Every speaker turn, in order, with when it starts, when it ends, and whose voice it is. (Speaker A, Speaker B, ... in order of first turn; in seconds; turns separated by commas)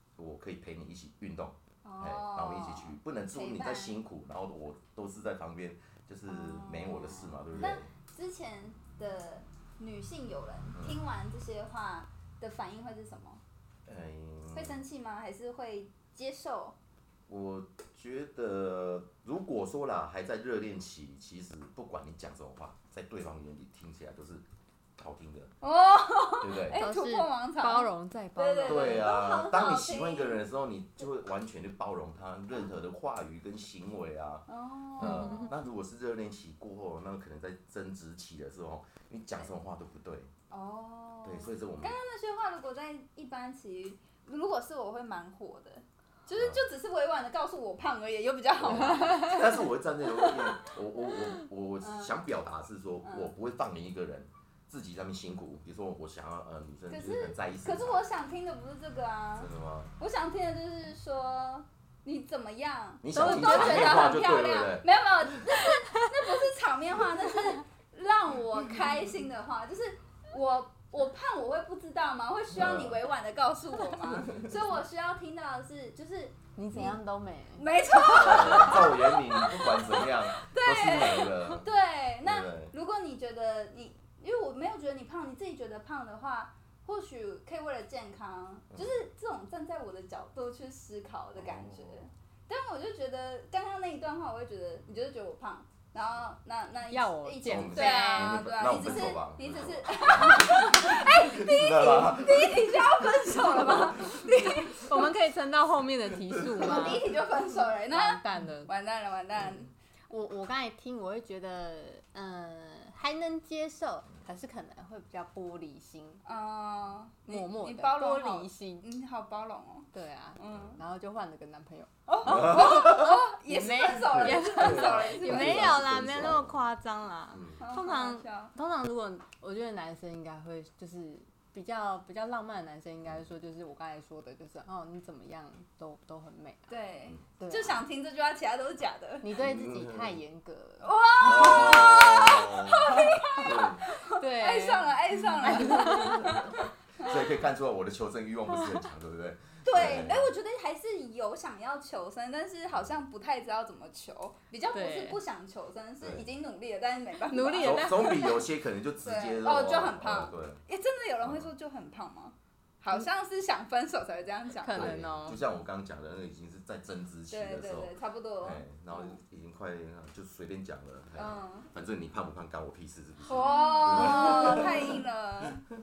Speaker A: 0.2-7.9, Speaker B: 1.8-4.0, Speaker B: 6.3-13.4, Speaker A: 13.8-14.8, Speaker B: 14.5-16.8, Speaker A: 17.3-24.4, Speaker A: 25.0-25.5, Speaker B: 25.6-30.4, Speaker A: 26.4-26.8, Speaker C: 26.7-29.1, Speaker A: 28.6-34.5, Speaker B: 34.5-35.5, Speaker A: 35.0-40.3, Speaker C: 35.0-35.5, Speaker B: 40.5-49.7, Speaker A: 41.2-42.0, Speaker A: 46.3-46.6, Speaker A: 48.6-58.0, Speaker B: 50.2-50.5, Speaker B: 51.8-52.1, Speaker B: 53.0-53.3, Speaker B: 56.9-77.0, Speaker A: 59.4-59.9, Speaker A: 63.0-65.4, Speaker C: 63.1-64.2, Speaker A: 72.5-73.0, Speaker A: 74.2-74.5, Speaker C: 76.5-77.7, Speaker B: 77.6-105.1, Speaker A: 78.1-81.7, Speaker A: 82.2-82.7, Speaker A: 91.3-92.1, Speaker C: 96.9-98.4, Speaker A: 97.4-104.2, Speaker C: 104.8-107.1, Speaker A: 106.3-106.7, Speaker B: 106.6-109.7, Speaker C: 107.9-108.7, Speaker C: 110.1-116.2, Speaker B: 116.2-120.8, Speaker C: 117.3-118.8, Speaker C: 119.9-136.7, Speaker B: 122.1-125.8, Speaker A: 122.2-123.2, Speaker A: 124.1-126.6, Speaker A: 127.3-127.6, Speaker B: 127.6-128.5, Speaker B: 136.7-139.3, Speaker C: 137.4-137.8, Speaker C: 139.2-141.9, Speaker A: 139.3-140.1, Speaker B: 140.8-147.3, Speaker A: 141.2-143.8, Speaker C: 142.9-143.4, Speaker C: 144.2-146.4, Speaker A: 145.6-150.3, Speaker B: 149.6-158.2, Speaker C: 154.7-155.2, Speaker C: 157.3-158.4, Speaker A: 157.6-160.6, Speaker B: 159.0-165.0, Speaker A: 161.2-161.5, Speaker C: 164.6-165.4, Speaker A: 164.7-175.0, Speaker B: 167.3-169.2, Speaker B: 171.2-171.7, Speaker B: 173.2-175.6, Speaker C: 173.6-174.6